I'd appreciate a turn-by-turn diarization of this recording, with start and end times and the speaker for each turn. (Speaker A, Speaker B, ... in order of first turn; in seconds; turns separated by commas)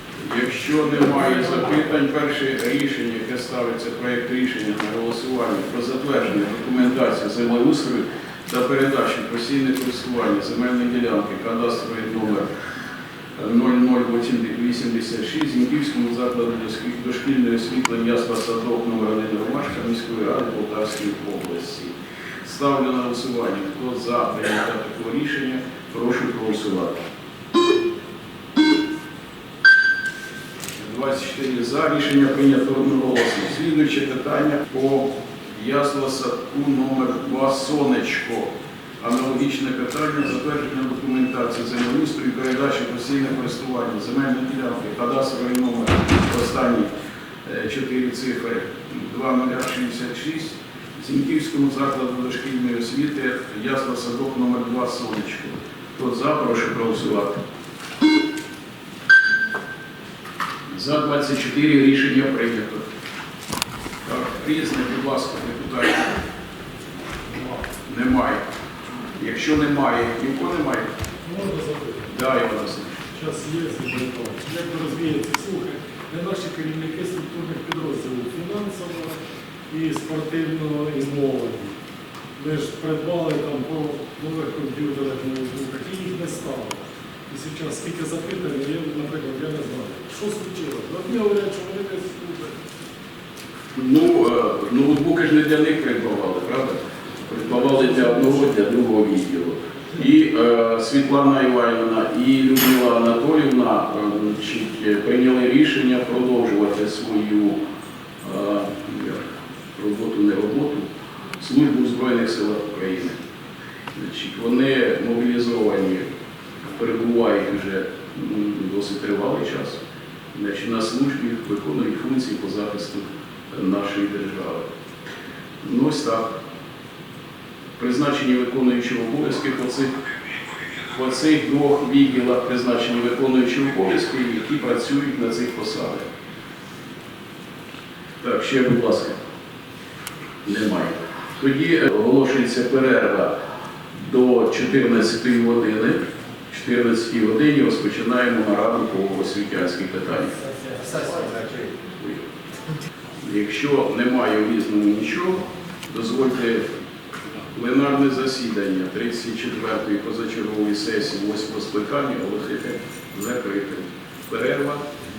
Speaker A: 0.2-12.5, Speaker A: 13.3-21.9, Speaker A: 22.4-27.0, Speaker A: 30.8-38.5, Speaker A: 39.0-46.9, Speaker A: 47.4-57.4, Speaker A: 60.7-62.8, Speaker A: 64.0-66.2, Speaker A: 67.8-68.4, Speaker A: 69.2-70.8, Speaker B: 71.2-72.0, Speaker A: 72.1-73.0, Speaker B: 73.1-79.2, Speaker B: 79.7-81.7, Speaker B: 82.4-92.5, Speaker A: 93.7-107.6, Speaker B: 97.6-98.5, Speaker A: 108.2-109.2, Speaker A: 109.8-110.9, Speaker A: 111.4-113.2, Speaker A: 113.9-116.1, Speaker A: 116.8-119.8, Speaker A: 120.3-124.6, Speaker A: 125.6-126.3, Speaker A: 127.8-129.9, Speaker A: 130.9-136.1, Speaker A: 138.2-139.2, Speaker A: 140.4-143.3, Speaker A: 144.0-146.0, Speaker A: 146.5-150.3, Speaker A: 152.0-152.2, Speaker A: 153.2-156.6, Speaker A: 157.5-164.8